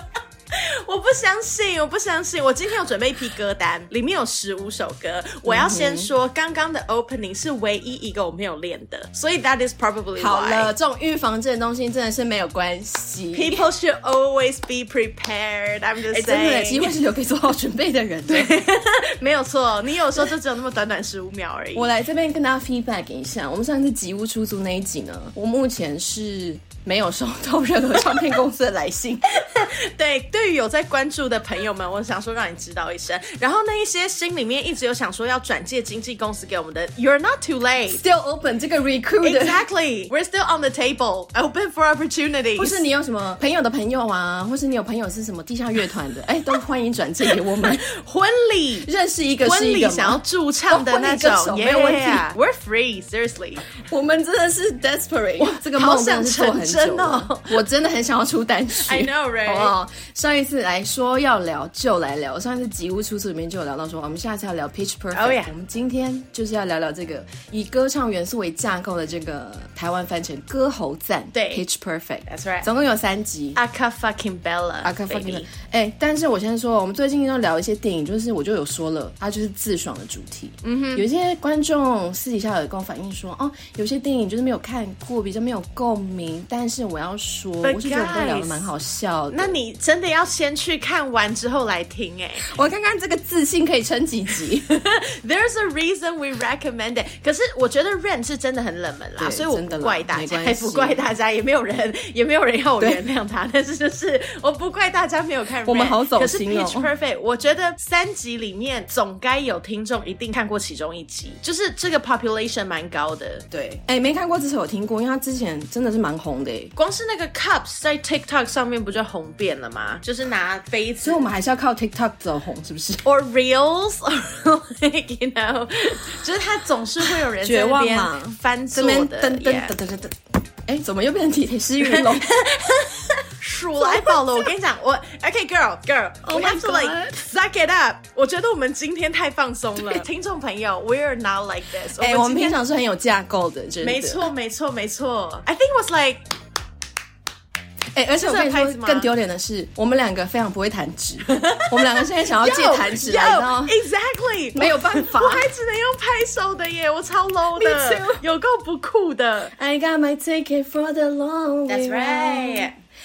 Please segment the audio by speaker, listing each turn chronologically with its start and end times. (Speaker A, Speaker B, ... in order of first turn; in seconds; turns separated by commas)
Speaker A: 0.5-10.7, Speaker B: 5.5-6.1, Speaker B: 10.2-13.7, Speaker A: 13.3-16.9, Speaker B: 16.1-18.6, Speaker A: 18.3-21.9, Speaker B: 21.7-29.6, Speaker A: 29.3-38.0, Speaker B: 37.9-39.6, Speaker A: 39.2-42.8, Speaker B: 42.6-47.9, Speaker A: 47.3-48.9, Speaker B: 48.8-52.3, Speaker A: 49.4-53.7, Speaker B: 53.8-73.6, Speaker A: 55.4-57.6, Speaker A: 58.8-59.7, Speaker A: 65.1-65.5, Speaker A: 71.3-71.6, Speaker A: 72.3-72.7, Speaker A: 73.5-75.5, Speaker B: 74.8-89.6, Speaker A: 80.6-81.0, Speaker A: 87.6-88.7, Speaker A: 89.3-92.5, Speaker B: 92.4-94.7, Speaker A: 94.6-113.5, Speaker B: 99.2-101.0, Speaker B: 105.6-106.9, Speaker B: 113.5-116.7, Speaker A: 116.8-121.3, Speaker B: 121.0-123.0, Speaker A: 123.0-129.7, Speaker B: 127.3-132.7, Speaker A: 131.8-142.6, Speaker B: 133.8-134.5, Speaker B: 136.2-137.2, Speaker B: 139.8-140.0, Speaker B: 142.0-144.3, Speaker A: 143.8-146.2, Speaker B: 147.9-153.7, Speaker A: 148.2-149.1, Speaker A: 151.3-159.5, Speaker B: 154.5-155.5, Speaker B: 157.5-158.2, Speaker B: 159.5-162.7, Speaker A: 161.7-162.7